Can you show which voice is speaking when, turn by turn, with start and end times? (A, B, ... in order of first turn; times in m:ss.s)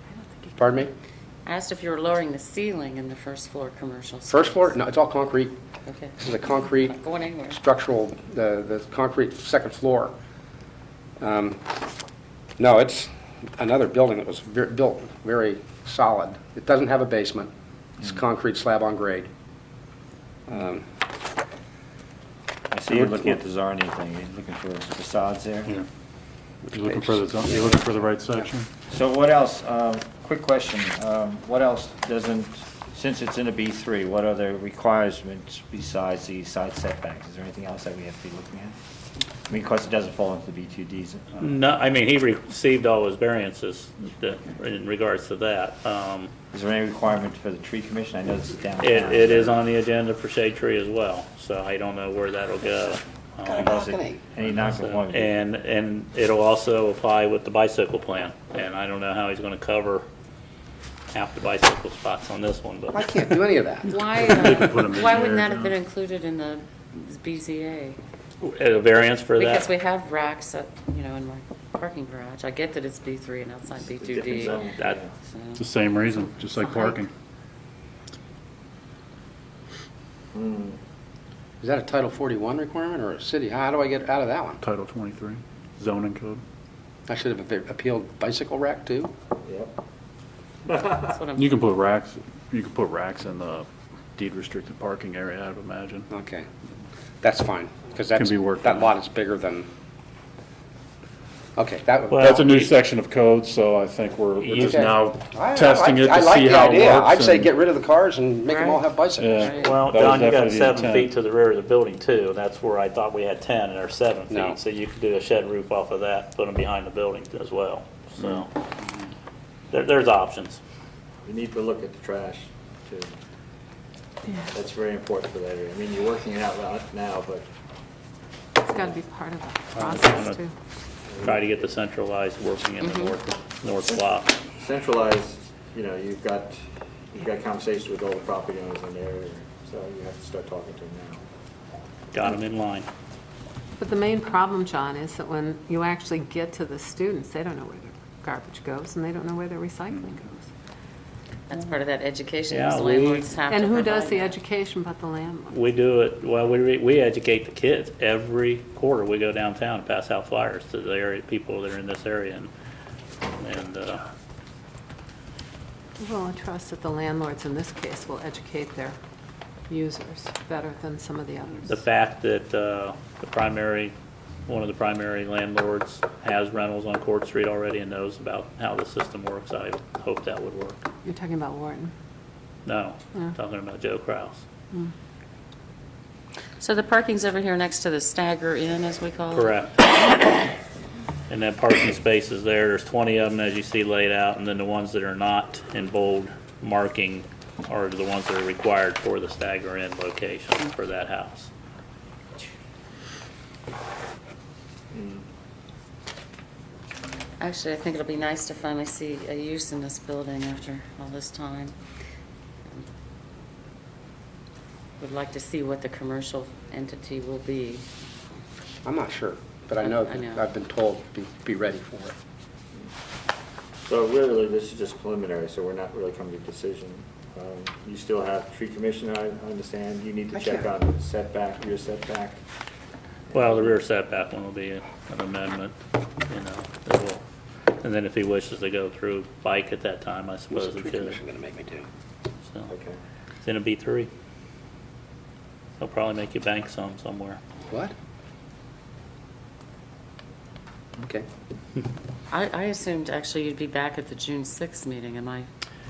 0:00.6-0:00.9 A
0:01.4-0:04.8 B
0:04.3-0:05.5 A
0:05.8-0:07.6 B
0:06.2-0:07.0 A
0:07.5-0:10.1 A
0:11.2-0:11.7 A
0:12.6-0:19.3 A
0:20.5-0:20.8 A
0:22.7-0:25.7 C
0:22.9-0:23.3 A
0:26.7-0:28.7 D
0:26.8-0:27.8 A
0:28.9-0:38.8 C
0:39.5-0:41.4 C
0:41.4-0:46.3 E
0:46.5-0:49.6 C
0:48.8-0:53.8 E
0:53.4-0:54.2 A
0:53.6-0:55.3 C
0:54.4-1:00.0 E
1:01.1-1:03.4 E
1:02.9-1:03.9 A
1:03.9-1:08.0 B
1:04.1-1:05.7 D
1:08.4-1:09.7 E
1:09.4-1:15.6 B
1:14.0-1:15.1 C
1:15.6-1:17.1 D
1:16.6-1:16.8 B
1:20.3-1:20.8 C
1:21.6-1:24.6 A
1:24.6-1:26.4 D
1:27.1-1:29.1 A
1:29.4-1:29.7 C
1:30.7-1:31.1 C
1:31.0-1:31.5 B
1:31.4-1:36.1 D
1:36.1-1:36.5 A
1:37.2-1:39.7 A
1:38.1-1:38.9 D
1:41.6-1:42.5 A
1:42.1-1:42.7 E
1:42.2-1:47.6 D
1:44.4-1:44.7 E
1:44.6-1:49.6 A
1:48.5-1:49.8 B
1:49.2-1:51.1 D
1:49.6-1:58.5 E
1:54.3-1:54.6 A
1:59.7-2:00.6 E
2:01.2-2:03.1 C
2:04.5-2:07.4 C
2:08.6-2:10.5 F
2:08.7-2:09.0 C
2:09.7-2:10.4 E
2:11.1-2:11.6 C
2:11.2-2:14.3 E
2:12.8-2:13.1 B
2:14.5-2:21.2 C
2:22.1-2:22.9 E
2:23.8-2:30.5 F
2:31.5-2:34.4 B
2:32.5-2:33.2 E
2:33.5-2:35.6 F
2:35.5-2:42.5 E
2:43.4-2:44.0 E
2:46.0-2:49.0 F
2:49.7-2:51.8 F
2:51.7-2:53.9 E
2:54.5-3:00.8 E
3:01.0-3:01.9 F
3:02.6-3:04.4 E
3:06.6-3:09.6 B
3:09.3-3:09.8 E
3:11.3-3:21.5 E
3:24.9-3:25.2 C
3:27.4-3:31.7 B
3:35.0-3:37.8 B
3:38.8-3:42.1 A
3:39.8-3:40.4 B
3:43.8-3:52.4 C
3:53.3-3:53.8 C
3:53.3-3:55.7 E
3:56.3-3:57.2 E
3:57.8-4:01.2 E
4:00.5-4:01.8 A
4:02.7-4:03.0 C
4:03.4-4:04.1 E
4:05.8-4:07.4 E
4:11.0-4:11.3 A
4:12.3-4:15.5 B